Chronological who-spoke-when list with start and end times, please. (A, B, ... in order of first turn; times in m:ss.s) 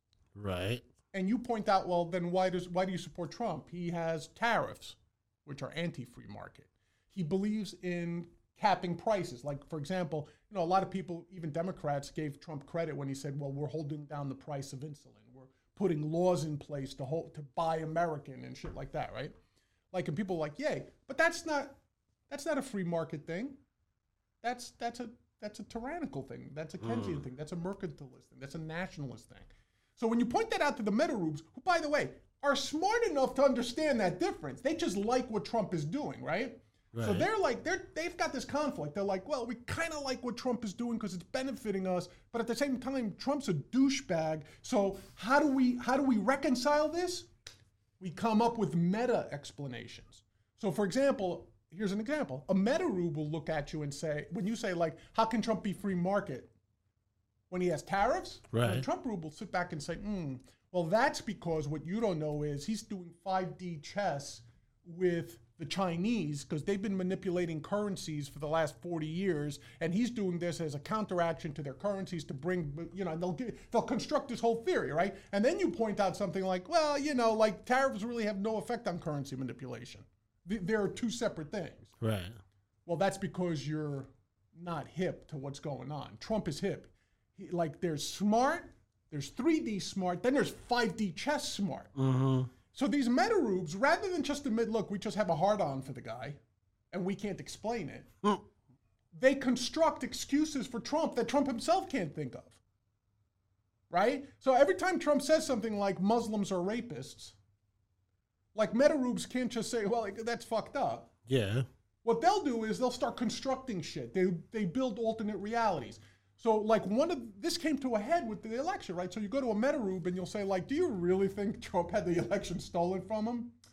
0:00.4-0:00.8 A
0:01.1-0:19.3 B
0:19.9-0:21.8 B
0:22.3-0:23.6 B
0:24.4-0:47.3 B
0:26.8-0:27.2 A
0:36.9-0:37.3 A
0:48.0-0:56.5 B
0:57.5-1:21.9 B
0:58.5-0:58.8 A
1:22.0-1:22.4 A
1:22.9-1:31.9 B
1:32.0-1:32.5 A
1:32.7-1:36.4 B
1:36.9-1:38.1 B
1:39.1-1:42.6 B
1:43.9-1:47.4 B
1:48.6-1:51.1 B
1:51.3-1:51.7 A
1:52.0-2:03.5 B